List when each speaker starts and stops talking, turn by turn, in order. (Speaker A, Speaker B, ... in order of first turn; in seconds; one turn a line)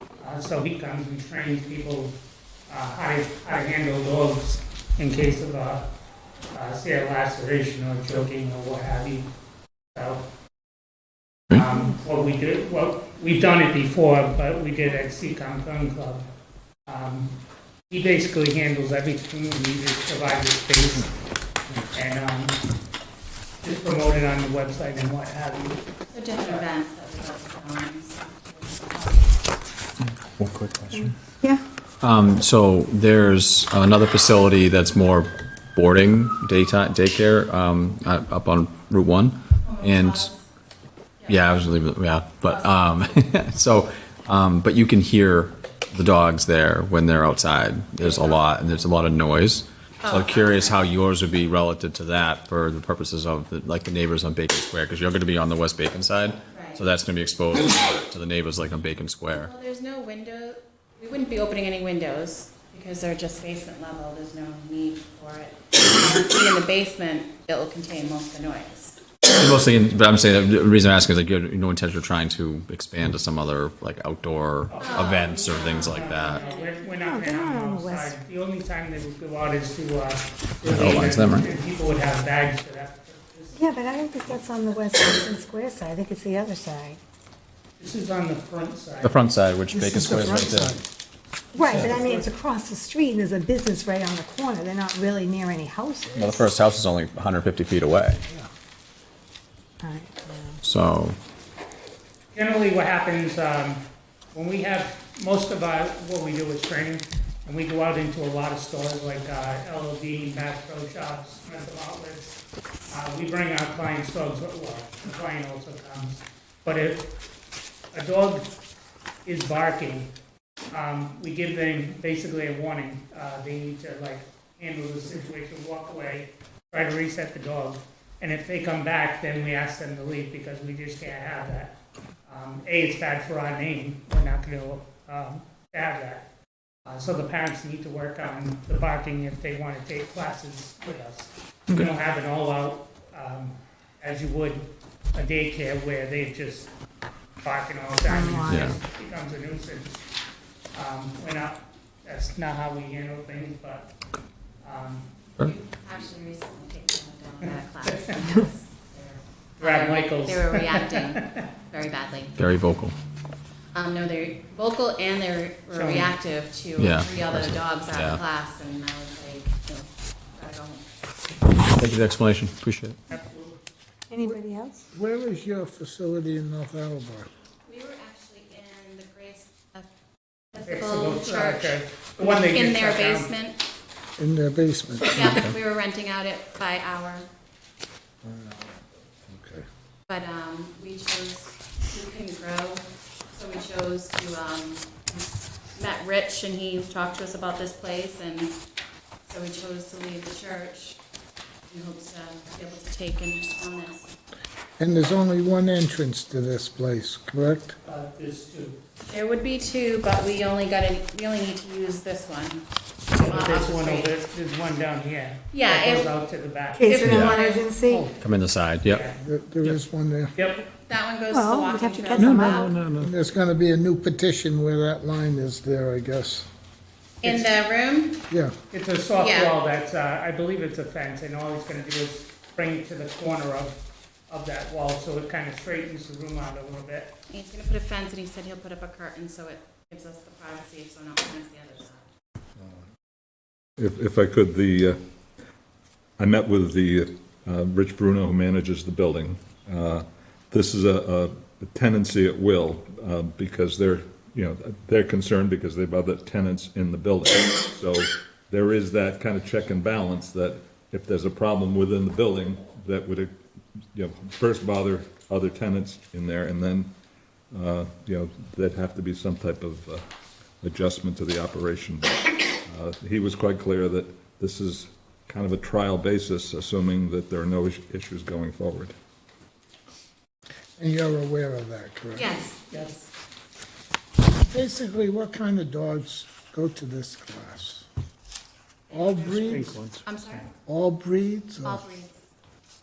Speaker A: 0.2-2.1
Speaker A: 2.7-5.8
Speaker A: 6.5-9.2
Speaker A: 9.9-10.2
Speaker A: 11.5-16.2
Speaker A: 16.9-17.4
Speaker A: 17.9-21.1
Speaker A: 21.9-22.6
Speaker A: 23.6-25.8
Speaker B: 26.1-29.3
Speaker C: 30.4-31.1
Speaker C: 32.0-40.3
Speaker B: 39.6-40.4
Speaker C: 41.3-59.5
Speaker B: 42.4-42.7
Speaker B: 48.0-48.4
Speaker B: 50.0-50.8
Speaker B: 56.5-56.8
Speaker B: 59.3-69.0
Speaker C: 69.2-76.4
Speaker A: 74.7-75.2
Speaker B: 74.8-76.8
Speaker A: 75.7-83.6
Speaker D: 77.0-78.2
Speaker C: 80.7-81.5
Speaker D: 83.5-87.0
Speaker A: 87.8-89.2
Speaker C: 89.0-90.8
Speaker E: 89.7-90.8
Speaker D: 91.5-96.5
Speaker E: 91.7-92.2
Speaker C: 96.1-98.2
Speaker D: 99.8-100.6
Speaker C: 100.6-101.2
Speaker A: 102.3-103.8
Speaker A: 104.3-117.1
Speaker A: 117.9-118.5
Speaker A: 119.2-120.1
Speaker A: 120.7-136.3
Speaker A: 136.8-146.7
Speaker A: 147.4-150.0
Speaker D: 148.1-148.7
Speaker C: 148.4-148.8
Speaker A: 150.7-153.9
Speaker A: 154.6-155.1
Speaker B: 155.4-162.4
Speaker A: 157.8-158.3
Speaker A: 159.6-161.4
Speaker C: 162.3-162.9
Speaker B: 163.7-170.8
Speaker A: 165.7-166.1
Speaker C: 166.8-168.2
Speaker C: 171.6-173.0
Speaker A: 173.1-173.6
Speaker D: 174.1-174.9
Speaker E: 174.9-177.3
Speaker B: 177.7-179.9
Speaker B: 180.5-183.6
Speaker A: 180.6-183.3
Speaker E: 184.2-185.2
Speaker B: 185.0-187.3
Speaker C: 185.2-185.5
Speaker E: 188.2-189.6
Speaker B: 190.1-198.5
Speaker B: 199.2-201.0
Speaker B: 201.7-204.1
Speaker E: 204.8-207.8
Speaker A: 207.8-208.8
Speaker B: 209.1-214.1
Speaker A: 213.1-218.1
Speaker B: 215.5-216.1
Speaker D: 216.7-218.1
Speaker B: 216.8-217.8
Speaker C: 217.1-217.4
Speaker C: 218.2-219.0
Speaker A: 218.8-219.8
Speaker E: 219.2-220.3
Speaker A: 220.3-220.6
Speaker B: 220.8-222.8
Speaker D: 221.3-222.8
Speaker E: 223.0-226.5
Speaker B: 227.2-228.2
Speaker A: 227.2-227.5
Speaker E: 228.3-228.5
Speaker A: 228.7-233.8
Speaker B: 229.2-229.5
Speaker A: 234.3-237.2
Speaker B: 237.3-242.0
Speaker F: 243.8-245.0
Speaker F: 246.2-263.3
Speaker F: 263.9-266.9
Speaker F: 267.5-270.0
Speaker F: 270.6-278.9
Speaker E: 280.8-282.4
Speaker B: 282.1-283.1
Speaker E: 284.3-287.9
Speaker B: 288.9-290.5
Speaker E: 288.9-289.8
Speaker A: 289.5-290.5
Speaker E: 290.6-291.9
Speaker B: 291.6-292.1